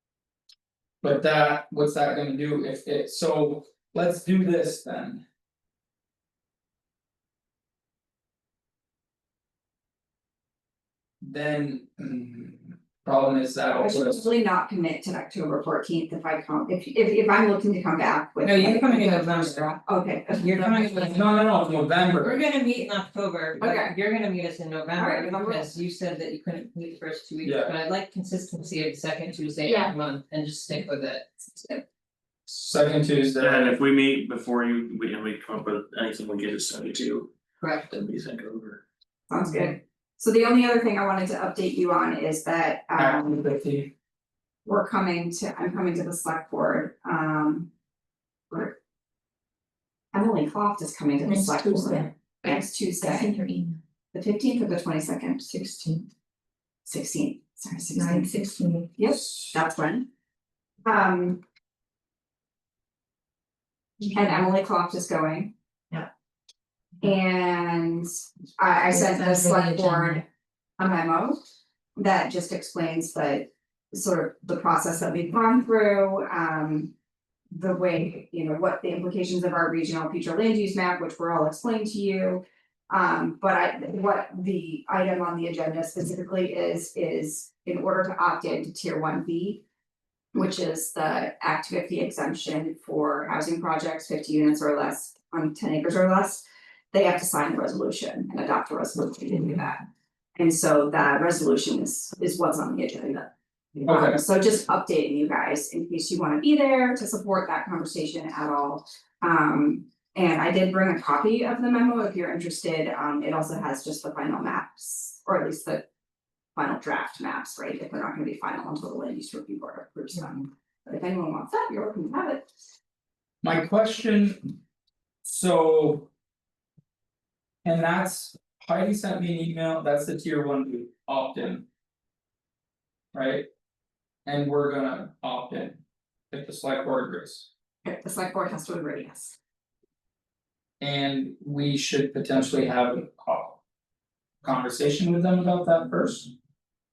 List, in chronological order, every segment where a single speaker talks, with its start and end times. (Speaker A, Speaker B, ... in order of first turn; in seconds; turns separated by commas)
Speaker A: 1.0-5.2, Speaker A: 11.2-14.2, Speaker B: 13.7-21.1, Speaker C: 18.4-19.8, Speaker C: 20.4-21.3, Speaker A: 20.8-22.4, Speaker C: 22.1-31.8, Speaker B: 23.6-23.9, Speaker B: 24.9-25.8, Speaker A: 27.4-27.7, Speaker D: 29.6-29.9, Speaker A: 32.5-33.7, Speaker E: 33.4-38.8, Speaker C: 37.6-37.9, Speaker B: 39.3-43.4, Speaker A: 43.0-43.9, Speaker B: 44.6-47.7, Speaker B: 48.5-48.8, Speaker B: 50.1-53.3, Speaker D: 51.2-53.8, Speaker B: 54.1-55.5, Speaker D: 55.5-56.1, Speaker B: 56.8-58.3, Speaker D: 57.9-58.9, Speaker B: 59.0-60.0, Speaker B: 60.8-61.4, Speaker B: 64.1-65.5, Speaker B: 67.0-70.2, Speaker D: 68.9-70.2, Speaker B: 70.8-71.4, Speaker B: 72.0-76.9, Speaker B: 77.5-89.6, Speaker B: 90.3-99.8, Speaker B: 100.3-115.8, Speaker A: 103.8-104.2, Speaker B: 116.5-122.5, Speaker A: 123.4-124.5, Speaker A: 125.2-126.1, Speaker A: 127.6-131.6, Speaker A: 133.1-133.4, Speaker A: 134.2-135.8, Speaker A: 136.3-137.5, Speaker B: 137.8-139.3, Speaker A: 140.8-143.6, Speaker A: 144.4-146.3